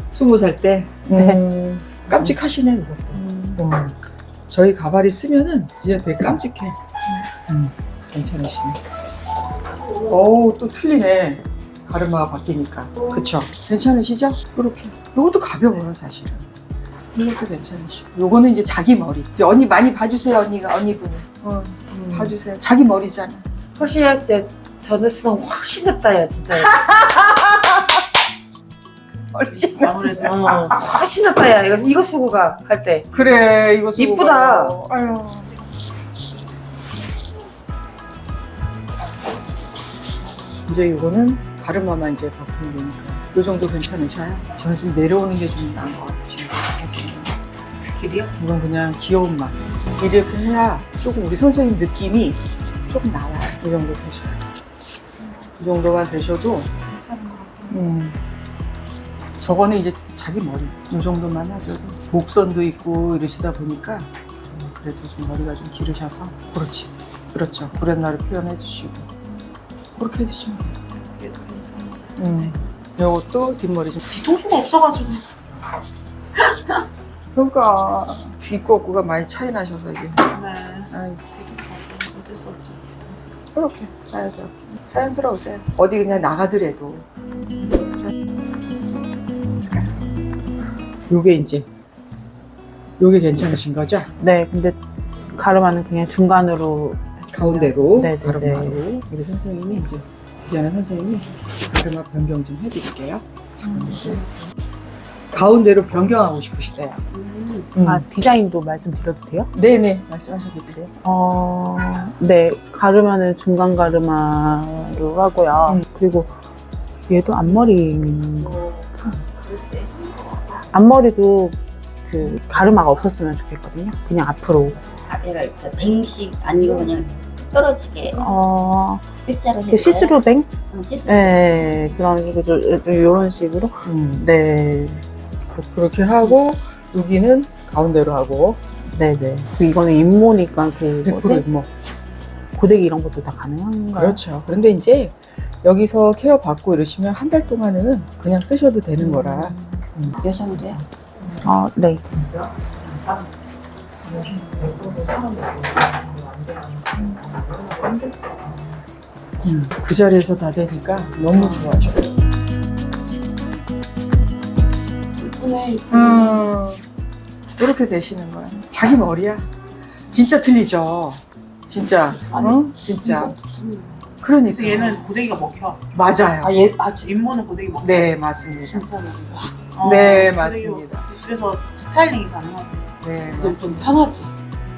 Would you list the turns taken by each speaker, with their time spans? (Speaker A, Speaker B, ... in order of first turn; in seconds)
Speaker A: 0.1-4.0, 4.5-6.8, 7.5-8.8, 9.9-16.5, 17.1-23.4, 26.6-28.0, 29.3-30.8, 33.1-35.5, 40.7-47.4, 48.4-54.4, 55.6-56.7, 57.7-58.2, 59.4-69.1, 70.0-70.8, 72.2-74.0, 77.3-80.4, 80.9-81.2, 83.5-87.1, 89.7-90.0, 91.1-91.7, 93.0-94.1, 97.3-104.3, 105.3-107.1, 107.8-108.1, 109.5-110.9, 133.8-134.3, 135.5-138.6, 141.0-141.7, 143.9-150.2, 152.1-153.2, 154.0-158.5, 159.4-162.1, 165.9-166.8, 167.6-169.5, 170.1-173.4, 174.2-175.0, 175.9-176.6, 177.8-178.9, 179.8-181.1, 183.0-183.9
Speaker B: 1.1-1.4, 3.1-3.6, 29.7-30.3, 47.9-48.3, 56.9-57.8, 71.0-72.6, 74.0-75.3, 76.4-76.8, 80.3-83.0, 94.2-94.8, 95.3-98.8, 107.8-109.5, 111.0-116.3, 117.1-118.8, 120.6-124.8, 128.1-129.1, 129.7-130.5, 131.0-135.0, 138.9-141.5, 142.5-144.2, 149.0-149.8, 151.4-152.0, 172.3-172.6, 174.4-175.8, 176.5-178.1, 179.7-182.9
Speaker C: 23.8-27.1, 30.1-33.1, 34.0-34.8, 165.2-166.5, 173.1-173.9, 178.8-179.7, 183.4-184.3
Speaker D: 125.1-128.3, 129.2-130.2, 130.7-131.5, 150.2-150.8